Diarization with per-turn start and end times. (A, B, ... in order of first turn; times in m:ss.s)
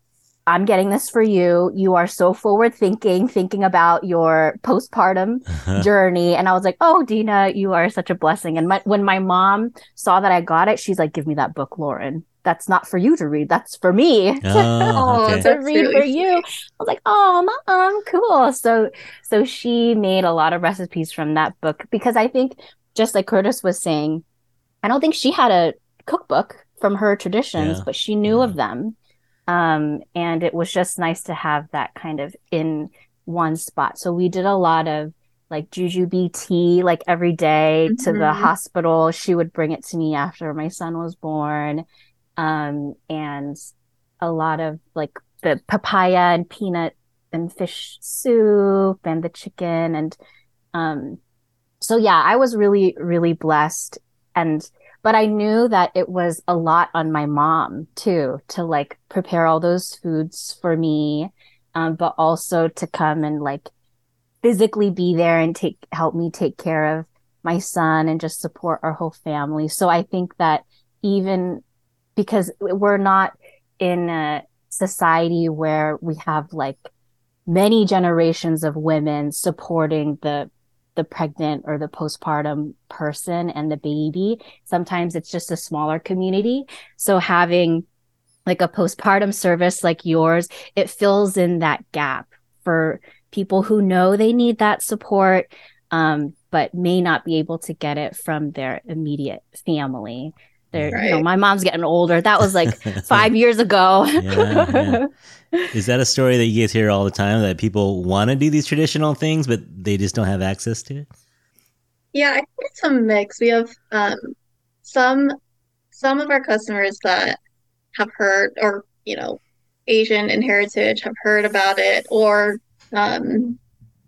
0:00.5-0:24.2 A
0:05.5-0:05.9 B
0:14.4-0:15.4 B
0:14.9-0:16.4 C
0:24.8-0:29.0 A
0:27.6-0:28.5 B
0:29.5-0:41.8 A
0:37.9-0:38.5 C
0:42.4-0:43.6 A
0:44.2-0:50.2 A
0:50.7-0:51.2 A
0:51.8-1:03.7 A
1:04.4-1:11.6 A
1:12.2-1:16.9 A
1:17.5-1:27.8 A
1:28.4-1:45.7 A
1:40.7-1:41.0 B
1:40.9-1:41.2 C
1:42.6-1:43.2 B
1:44.2-1:45.0 B
1:45.7-1:51.1 B
1:52.1-1:55.3 C
1:55.9-1:57.4 C
1:57.9-2:03.6 C